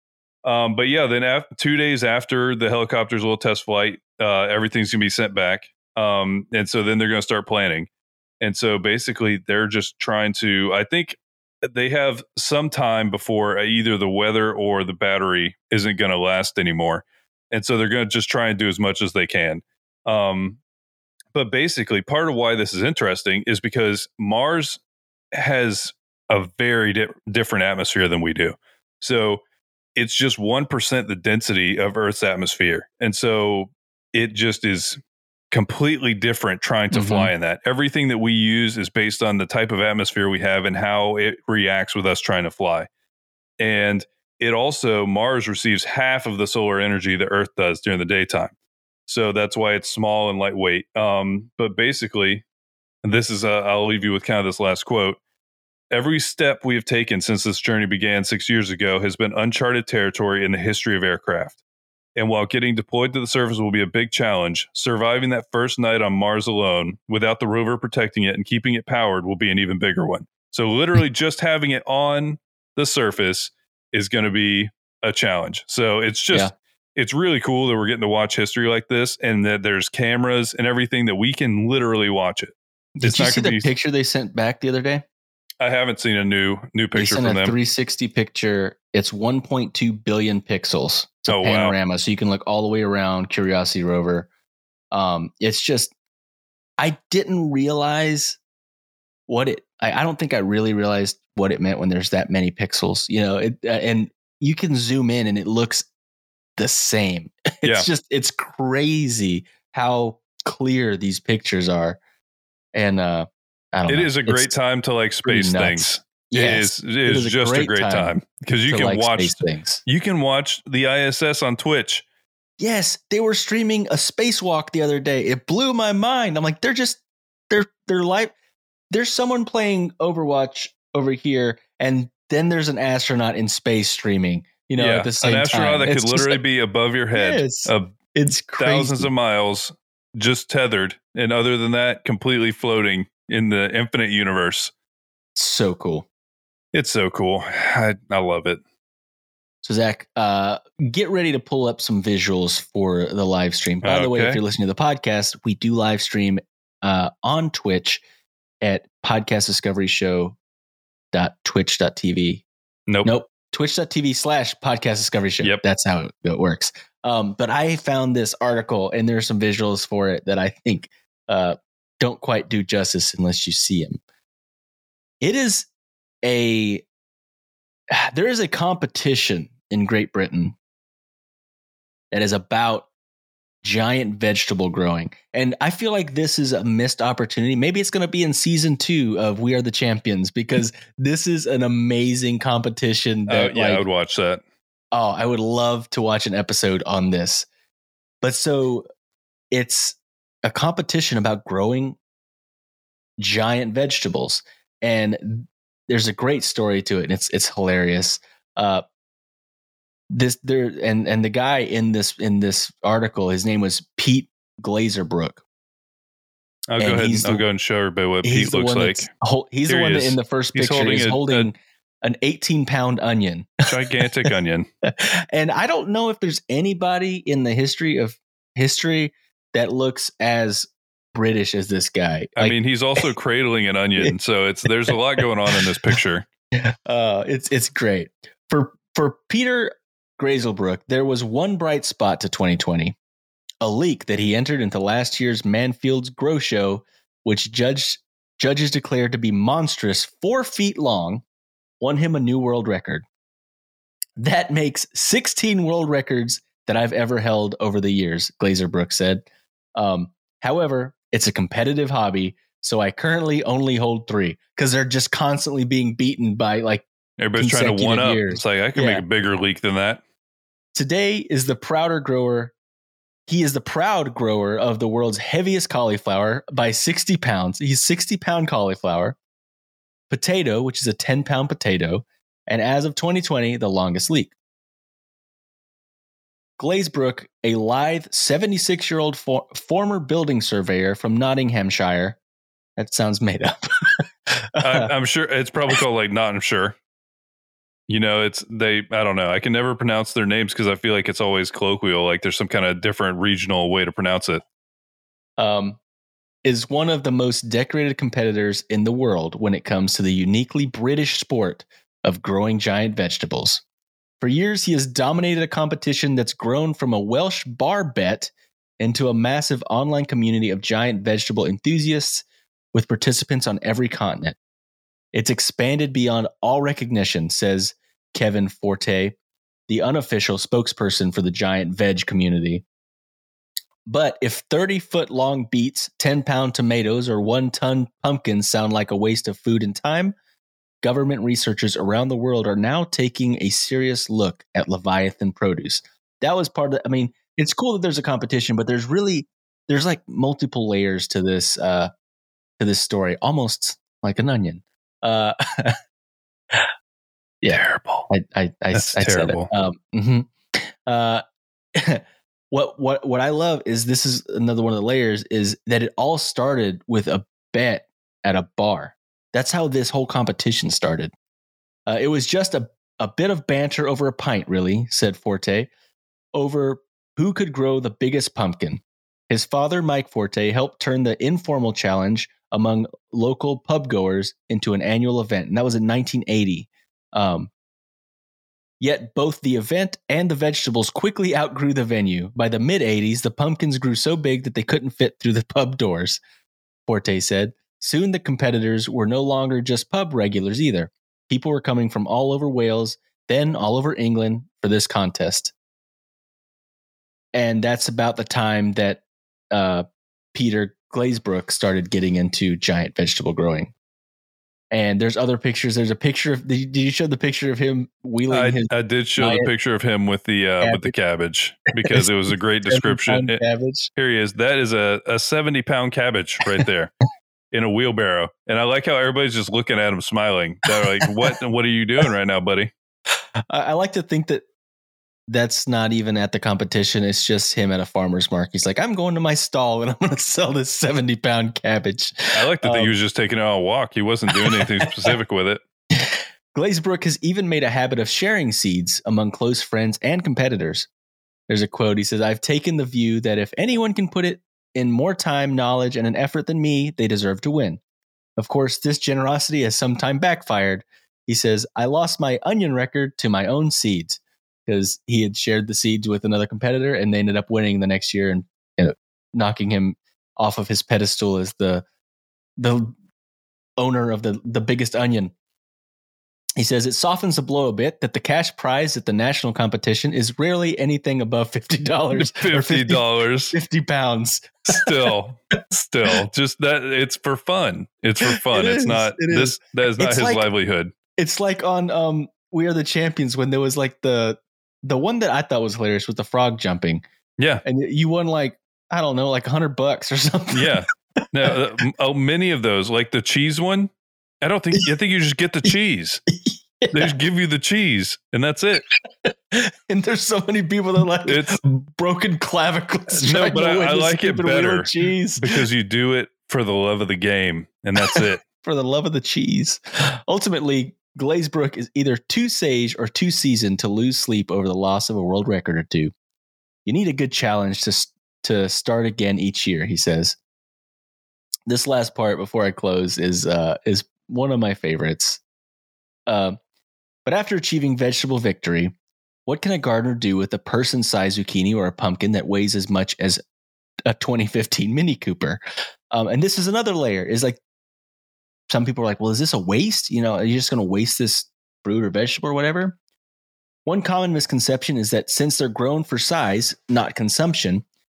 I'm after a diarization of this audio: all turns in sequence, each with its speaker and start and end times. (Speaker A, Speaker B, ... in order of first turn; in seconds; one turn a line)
Speaker A: 0.4-7.9
Speaker A: 8.4-20.6
Speaker A: 21.3-24.8
Speaker A: 25.3-29.4
Speaker A: 30.0-35.0
Speaker A: 35.5-42.9
Speaker B: 36.9-37.3
Speaker A: 43.6-48.5
Speaker A: 49.1-52.4
Speaker A: 53.0-55.2
Speaker A: 55.9-61.6
Speaker A: 62.1-83.7
Speaker B: 83.0-85.0
Speaker A: 85.6-87.5
Speaker B: 87.0-94.3
Speaker A: 91.3-91.8
Speaker B: 94.9-95.9
Speaker B: 96.8-98.4
Speaker B: 99.3-105.9
Speaker B: 106.6-112.0
Speaker B: 112.7-114.5
Speaker A: 113.9-122.0
Speaker B: 115.2-118.1
Speaker B: 118.7-119.8
Speaker B: 122.6-128.3
Speaker B: 128.9-136.4
Speaker A: 134.8-137.9
Speaker B: 137.1-139.1
Speaker A: 138.6-144.7
Speaker B: 145.4-146.1
Speaker A: 146.7-148.6
Speaker B: 149.6-158.0
Speaker A: 153.8-154.4
Speaker B: 158.6-160.4
Speaker B: 161.1-162.5
Speaker B: 163.0-174.0
Speaker B: 175.2-175.7
Speaker B: 176.2-176.8
Speaker B: 177.9-180.6
Speaker B: 182.1-182.9
Speaker B: 183.6-193.8
Speaker A: 193.3-194.4
Speaker B: 194.9-197.5
Speaker B: 198.2-198.9
Speaker B: 199.5-202.0
Speaker B: 203.2-208.8
Speaker B: 210.1-215.4
Speaker A: 216.7-219.1
Speaker B: 216.8-217.4
Speaker B: 218.2-224.3
Speaker A: 219.7-221.5
Speaker A: 223.7-224.7
Speaker B: 224.8-232.6
Speaker A: 232.4-236.2
Speaker B: 236.6-243.0
Speaker B: 243.6-251.2
Speaker B: 251.8-253.1
Speaker B: 254.2-269.0
Speaker A: 267.2-270.0
Speaker B: 270.8-272.6
Speaker B: 273.3-279.2
Speaker B: 280.1-284.3
Speaker B: 286.6-292.2
Speaker B: 292.8-294.9
Speaker A: 294.6-296.8
Speaker A: 297.9-304.4
Speaker B: 305.4-305.8
Speaker B: 306.4-313.6
Speaker B: 314.2-324.4
Speaker B: 325.1-329.1
Speaker B: 329.7-332.6
Speaker B: 333.9-340.1
Speaker B: 340.8-351.9
Speaker B: 352.6-355.8
Speaker B: 357.4-361.2
Speaker A: 357.5-358.1
Speaker A: 358.7-359.5
Speaker B: 361.8-371.1
Speaker B: 371.9-375.7
Speaker B: 376.3-387.5
Speaker B: 388.8-396.2
Speaker B: 396.9-405.5
Speaker B: 407.4-413.7
Speaker B: 414.7-419.5
Speaker A: 418.3-423.4
Speaker B: 420.6-420.9
Speaker B: 422.7-423.9
Speaker A: 423.9-426.9
Speaker A: 427.5-432.7
Speaker B: 433.5-434.4
Speaker B: 435.3-442.9
Speaker A: 442.3-445.6
Speaker B: 444.4-445.1
Speaker B: 445.9-450.9
Speaker B: 451.5-457.8
Speaker B: 458.4-471.9
Speaker B: 472.6-472.9
Speaker B: 473.8-475.3
Speaker B: 476.6-484.8
Speaker A: 482.1-483.5
Speaker A: 484.7-490.9
Speaker B: 488.2-490.5
Speaker B: 491.2-497.0
Speaker A: 497.4-497.6
Speaker B: 497.6-500.7
Speaker A: 500.5-506.2
Speaker B: 506.3-507.1
Speaker A: 506.9-508.9
Speaker B: 509.2-515.5
Speaker A: 511.2-511.6
Speaker A: 513.1-518.4
Speaker B: 518.0-526.1
Speaker B: 526.9-530.4
Speaker B: 531.7-535.4
Speaker B: 536.3-536.6
Speaker B: 537.2-538.9
Speaker B: 539.5-543.4
Speaker B: 544.1-545.6
Speaker B: 546.1-547.6
Speaker B: 548.7-553.0
Speaker B: 553.9-557.8